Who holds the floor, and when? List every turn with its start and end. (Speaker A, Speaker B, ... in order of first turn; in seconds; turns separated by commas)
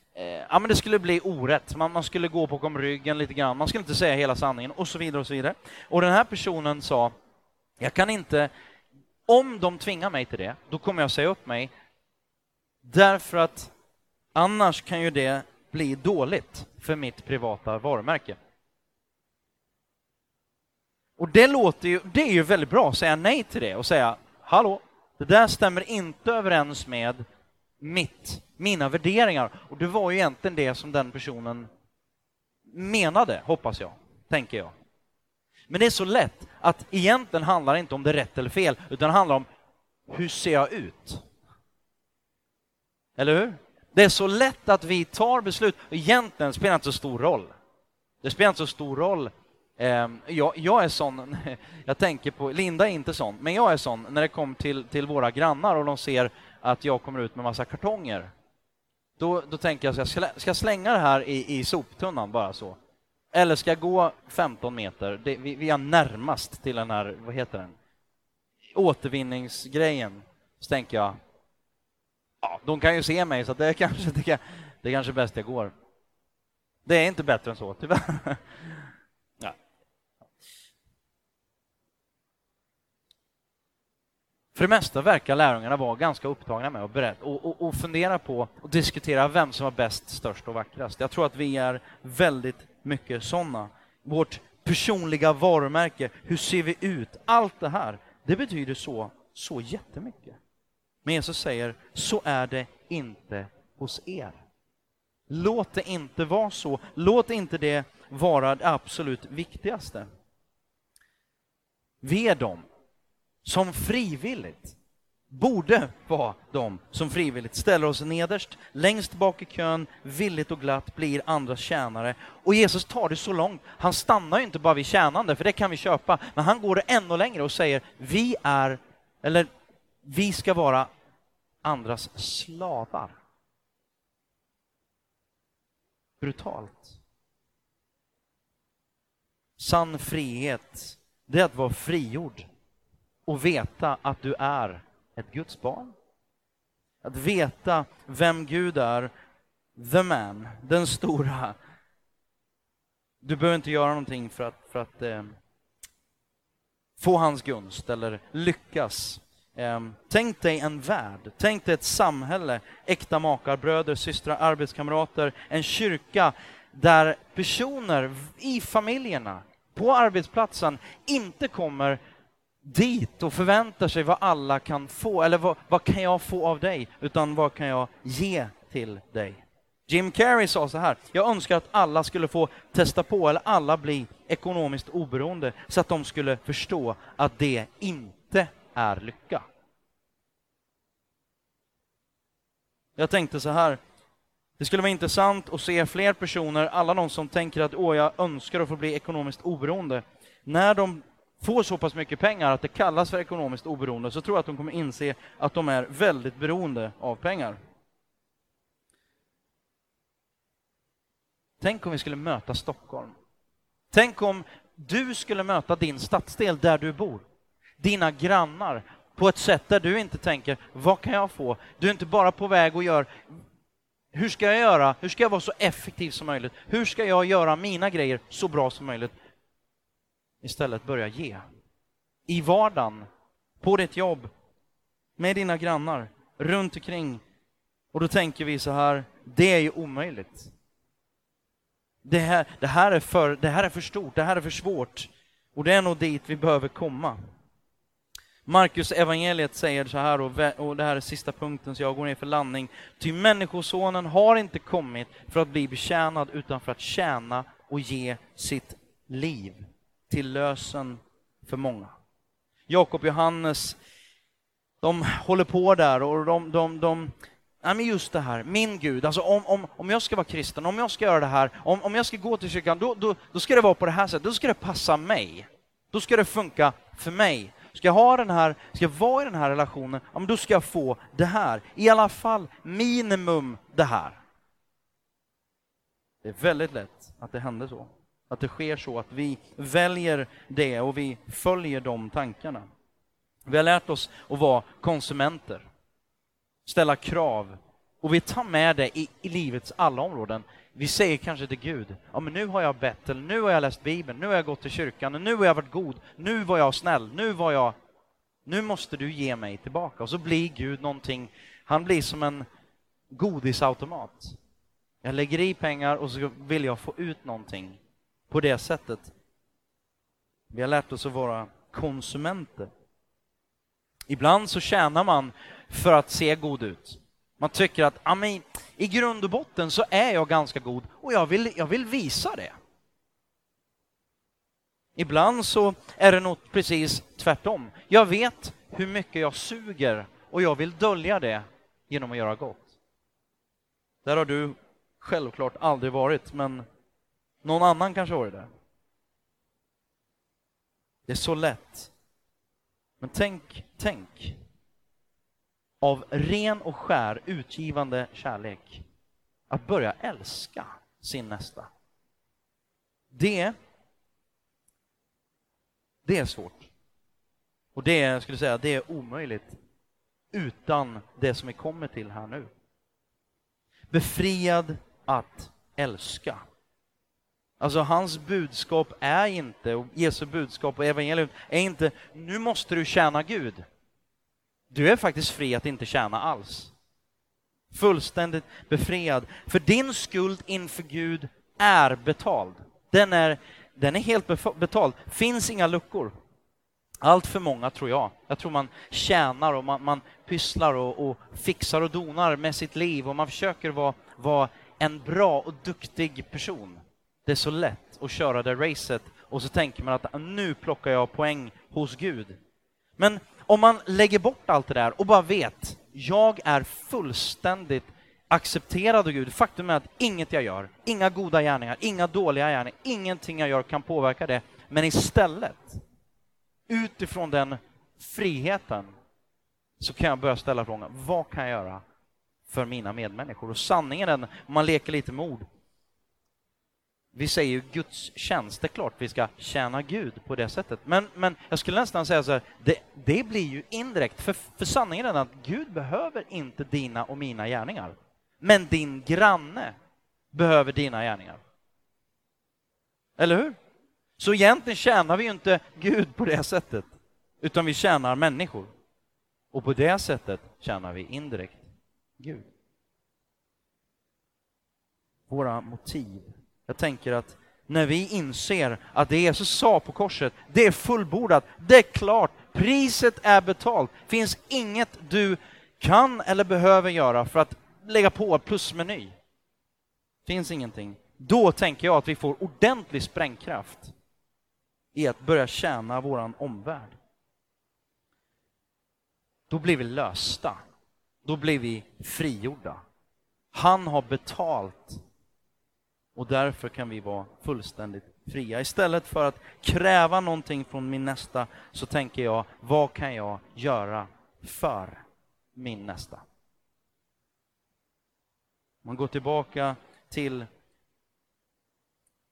Speaker A: 0.1-7.1, Speaker A: 7.8-8.5, Speaker A: 9.3-11.7, Speaker A: 12.8-13.7, Speaker A: 14.3-18.4, Speaker A: 21.2-27.2, Speaker A: 27.8-31.7, Speaker A: 32.7-34.7, Speaker A: 35.7-39.5, Speaker A: 40.1-41.2, Speaker A: 43.2-47.5, Speaker A: 48.2-58.3, Speaker A: 59.2-62.8, Speaker A: 63.3-67.7, Speaker A: 68.7-71.1, Speaker A: 72.4-75.7, Speaker A: 76.8-78.9, Speaker A: 84.5-100.4, Speaker A: 101.0-104.4, Speaker A: 105.3-110.1, Speaker A: 112.0-112.6, Speaker A: 113.4-114.8, Speaker A: 115.3-129.5, Speaker A: 130.0-130.9, Speaker A: 131.6-133.2, Speaker A: 136.2-137.0, Speaker A: 139.6-142.4, Speaker A: 143.2-145.9, Speaker A: 147.0-149.1, Speaker A: 149.8-151.6, Speaker A: 153.2-155.4, Speaker A: 157.0-172.0, Speaker A: 172.6-189.4, Speaker A: 192.9-193.8, Speaker A: 194.6-207.6, Speaker A: 211.6-213.2, Speaker A: 213.9-217.2, Speaker A: 217.8-223.1, Speaker A: 224.1-229.1, Speaker A: 230.4-231.4, Speaker A: 232.3-233.0, Speaker A: 233.6-234.3, Speaker A: 235.2-237.2, Speaker A: 237.9-240.5, Speaker A: 242.0-247.2, Speaker A: 248.4-261.9, Speaker A: 262.7-263.8, Speaker A: 264.8-284.2, Speaker A: 286.2-292.6, Speaker A: 293.5-295.6, Speaker A: 296.6-307.7, Speaker A: 308.4-312.4, Speaker A: 313.1-314.4, Speaker A: 315.0-319.1, Speaker A: 320.5-322.7, Speaker A: 324.1-332.5, Speaker A: 334.9-342.8, Speaker A: 344.0-346.6, Speaker A: 347.4-348.5, Speaker A: 351.1-351.9, Speaker A: 353.0-354.4, Speaker A: 355.8-358.8, Speaker A: 359.5-361.7, Speaker A: 363.1-363.5, Speaker A: 366.0-366.7, Speaker A: 367.7-369.6, Speaker A: 370.3-372.5, Speaker A: 373.9-376.4, Speaker A: 377.6-383.6, Speaker A: 384.7-386.7, Speaker A: 387.7-396.1, Speaker A: 397.0-412.4, Speaker A: 413.0-425.8, Speaker A: 426.7-428.9, Speaker A: 429.8-431.8, Speaker A: 432.5-435.4, Speaker A: 437.1-449.7, Speaker A: 450.3-451.4, Speaker A: 453.2-453.6, Speaker A: 454.2-458.7, Speaker A: 459.5-462.5, Speaker A: 465.3-479.1, Speaker A: 480.2-483.9, Speaker A: 484.9-487.0, Speaker A: 489.5-490.6, Speaker A: 491.2-492.8, Speaker A: 493.5-495.0, Speaker A: 496.1-505.0, Speaker A: 505.5-506.2, Speaker A: 508.8-510.5